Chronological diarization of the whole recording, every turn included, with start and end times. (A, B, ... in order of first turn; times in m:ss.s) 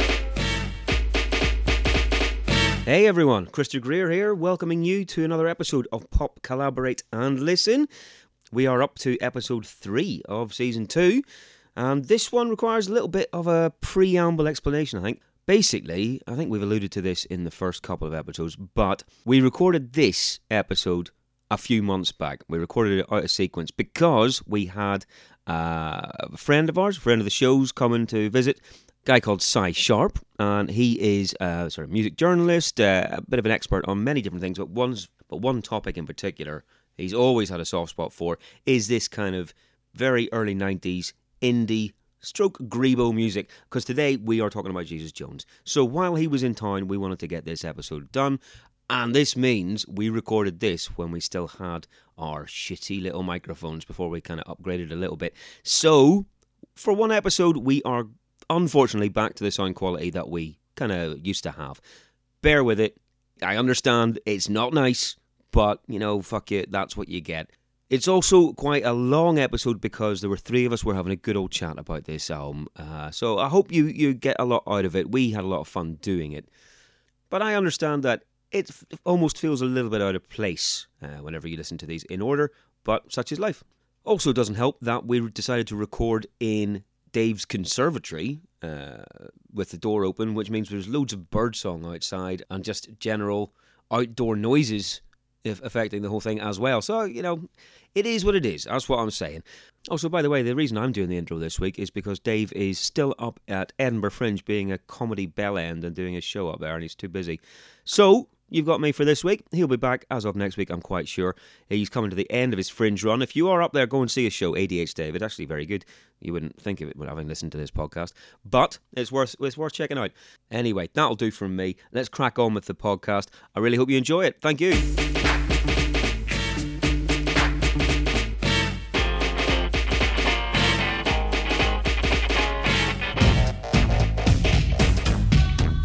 0:02.8-0:07.9 A
0:08.5-0:11.2 A
0:11.8-1:01.8 A
1:02.4-1:16.5 A
1:17.3-2:04.9 A